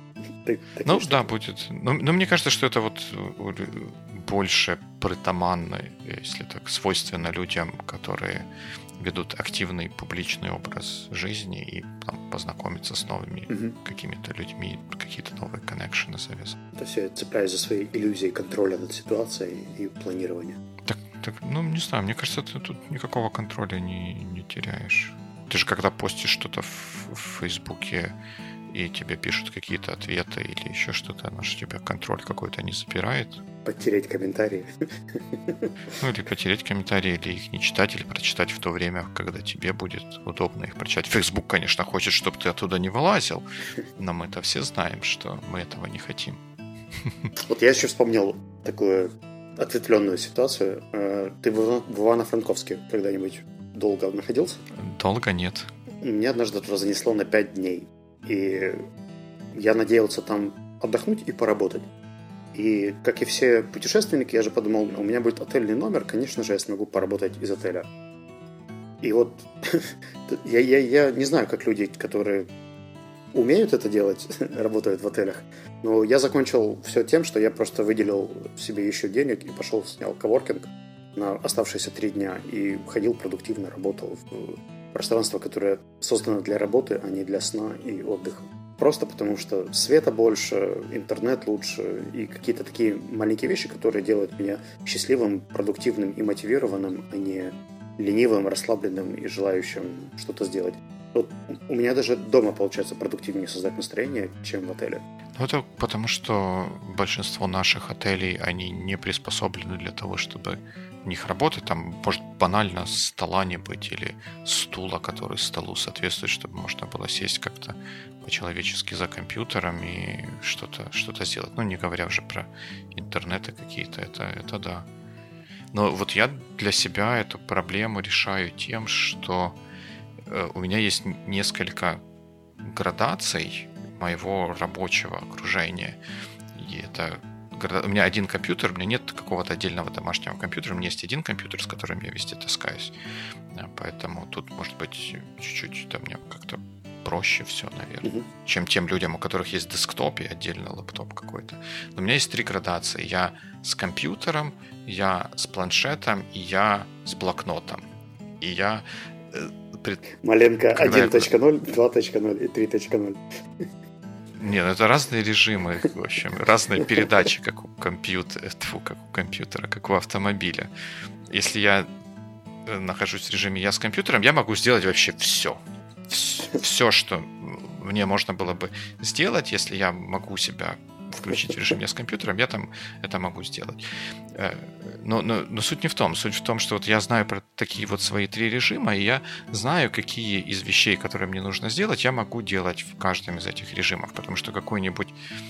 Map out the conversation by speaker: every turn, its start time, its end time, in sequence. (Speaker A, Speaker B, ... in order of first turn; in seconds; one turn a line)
Speaker A: 0.4-1.3
Speaker B: 0.8-16.6
Speaker A: 13.5-13.8
Speaker A: 16.7-20.6
Speaker B: 20.9-28.1
Speaker B: 28.7-33.4
Speaker A: 33.6-35.7
Speaker B: 36.0-43.4
Speaker B: 44.0-46.4
Speaker B: 47.0-47.3
Speaker A: 47.4-54.6
Speaker B: 54.8-55.7
Speaker A: 56.0-58.8
Speaker A: 59.5-61.9
Speaker A: 62.5-67.9
Speaker A: 69.0-72.5
Speaker A: 73.3-105.0
Speaker B: 105.4-124.9
Speaker B: 125.7-129.6
Speaker B: 130.3-132.0
Speaker B: 132.6-136.0
Speaker B: 136.5-142.9
Speaker B: 143.5-157.8
Speaker B: 158.4-160.0
Speaker A: 160.2-163.7
Speaker B: 160.6-161.3
Speaker B: 164.4-170.7
Speaker B: 171.3-171.9
Speaker B: 172.7-183.8
Speaker B: 184.3-195.2